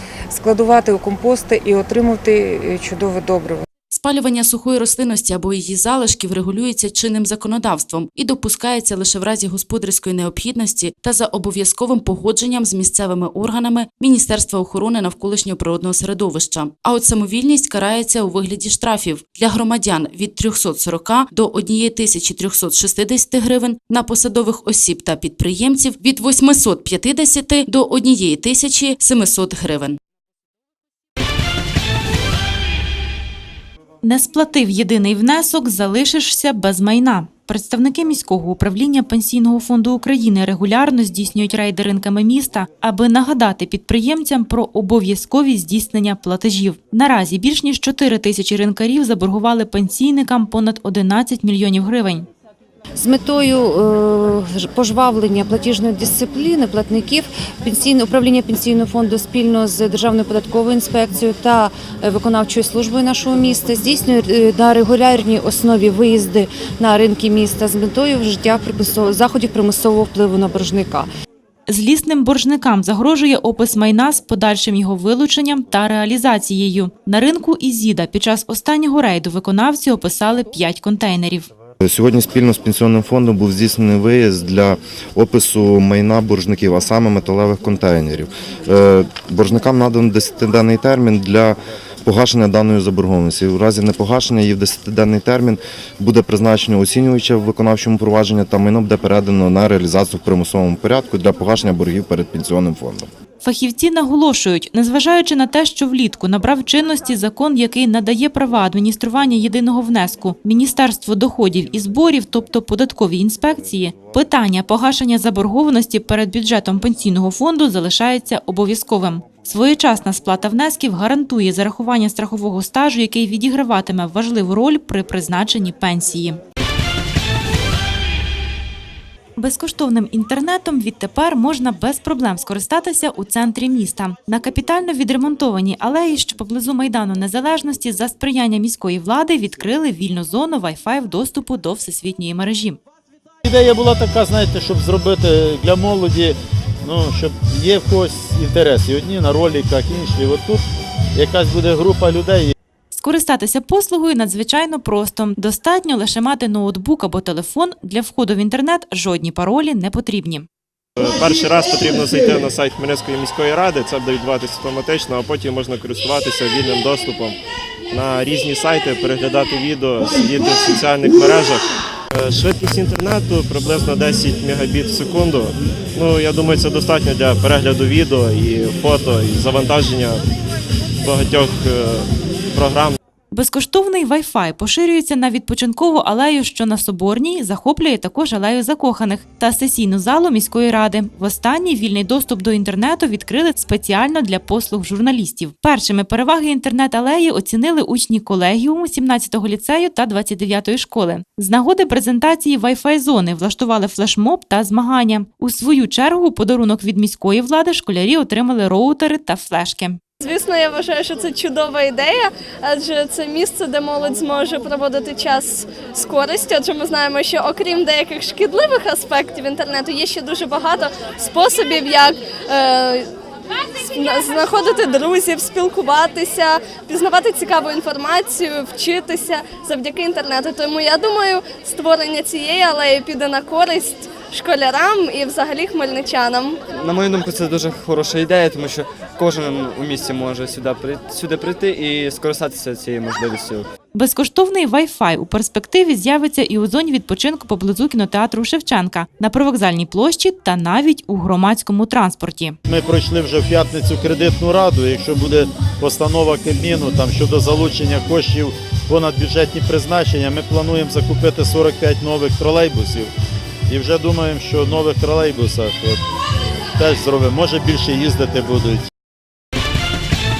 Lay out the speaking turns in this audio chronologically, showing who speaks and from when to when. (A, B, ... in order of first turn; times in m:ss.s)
0:00.3-0:03.6 A
0:03.9-0:30.0 B
0:34.0-0:52.3 C
0:53.0-1:11.1 D
1:11.7-1:21.5 C
1:21.8-1:43.1 E
1:43.4-2:06.4 C
2:09.4-2:22.8 C
2:23.4-2:30.6 F
2:31.1-2:32.5 F
2:32.9-2:40.5 C
2:41.0-2:47.4 G
2:47.9-3:00.2 G
3:01.0-3:03.0 G
3:03.3-3:30.0 C
3:30.2-3:43.1 H
3:43.9-3:56.6 H
3:56.7-4:03.6 I
4:03.9-4:12.6 C
4:12.6-4:23.1 F
4:23.7-4:26.0 F
4:26.8-4:28.9 F